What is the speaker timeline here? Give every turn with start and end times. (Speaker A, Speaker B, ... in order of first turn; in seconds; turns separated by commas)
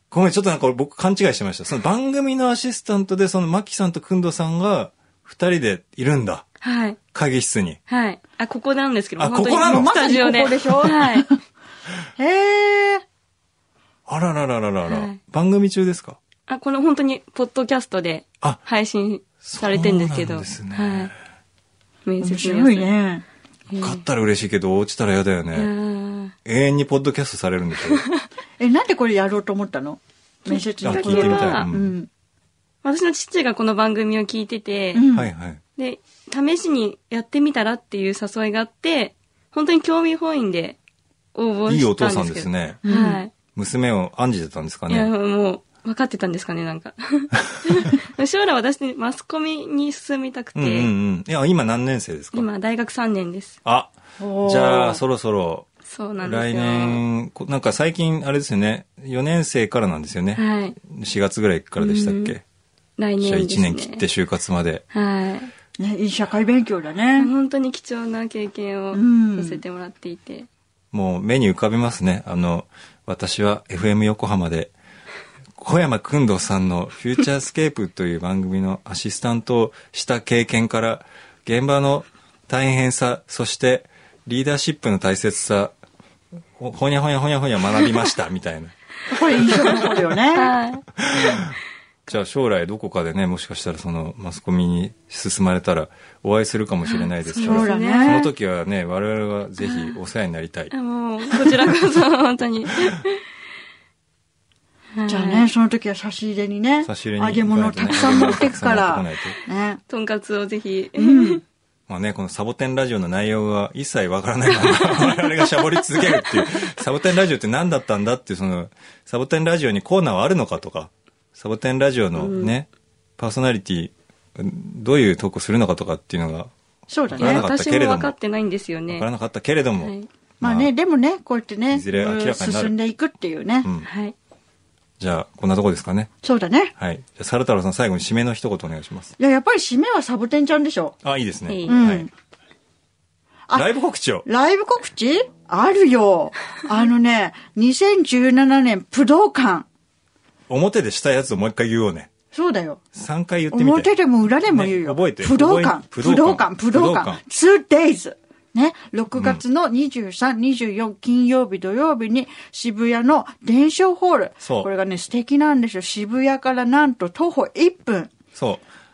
Speaker A: 0.1-6.5, Speaker B: 6.6-7.0, Speaker A: 7.1-7.8, Speaker B: 7.9-11.3, Speaker A: 9.2-9.9, Speaker C: 9.6-11.3, Speaker C: 12.2-13.0, Speaker A: 14.1-16.2, Speaker B: 14.9-15.2, Speaker B: 16.5-21.1, Speaker A: 19.4-21.1, Speaker B: 22.1-22.9, Speaker C: 22.2-23.2, Speaker B: 23.7-24.0, Speaker A: 23.8-25.7, Speaker B: 25.5-26.3, Speaker A: 26.4-28.0, Speaker B: 27.8-28.2, Speaker C: 28.6-32.1, Speaker B: 30.5-31.7, Speaker A: 30.8-31.9, Speaker B: 32.8-35.0, Speaker C: 34.9-35.3, Speaker A: 35.1-35.6, Speaker B: 35.8-40.8, Speaker B: 41.3-43.3, Speaker A: 41.7-42.8, Speaker C: 42.9-43.2, Speaker A: 43.5-45.1, Speaker B: 44.9-50.9, Speaker A: 50.5-52.5, Speaker B: 52.3-53.6, Speaker A: 53.6-55.7, Speaker C: 54.2-55.0, Speaker B: 55.9-57.0, Speaker A: 56.2-62.4, Speaker B: 60.4-60.8, Speaker B: 61.8-62.3, Speaker B: 63.0-64.0, Speaker A: 63.2-64.8, Speaker B: 64.9-65.5, Speaker C: 65.8-67.3, Speaker B: 67.2-70.5, Speaker C: 68.9-69.6, Speaker A: 70.9-74.7, Speaker A: 75.6-85.7, Speaker A: 86.6-88.7, Speaker C: 89.1-90.5, Speaker B: 89.6-91.4, Speaker A: 91.0-91.5, Speaker A: 92.1-100.7, Speaker B: 96.9-98.3, Speaker C: 97.4-98.3, Speaker B: 99.6-100.0, Speaker B: 100.7-103.2, Speaker B: 105.0-105.5, Speaker C: 105.1-109.8, Speaker A: 106.8-109.3, Speaker B: 108.0-108.4, Speaker B: 109.9-111.4, Speaker C: 111.0-111.4, Speaker A: 111.9-126.5, Speaker B: 114.7-115.0, Speaker B: 116.2-116.7, Speaker B: 122.2-122.5, Speaker C: 126.9-127.4, Speaker A: 127.1-128.2, Speaker B: 127.2-129.1, Speaker A: 128.9-130.7, Speaker B: 129.8-130.1, Speaker C: 130.4-133.7, Speaker A: 131.7-132.7, Speaker B: 133.8-134.1, Speaker A: 135.0-136.1, Speaker C: 136.2-136.7, Speaker A: 136.8-139.1, Speaker C: 139.2-140.9, Speaker A: 141.0-142.1, Speaker B: 141.5-141.8, Speaker C: 141.7-142.1, Speaker A: 143.5-144.2, Speaker C: 144.2-149.7, Speaker A: 150.5-152.1, Speaker C: 152.3-152.8, Speaker A: 152.9-153.9, Speaker C: 153.5-168.1, Speaker A: 154.4-157.2, Speaker A: 159.1-159.4, Speaker A: 164.4-164.7, Speaker A: 168.3-168.6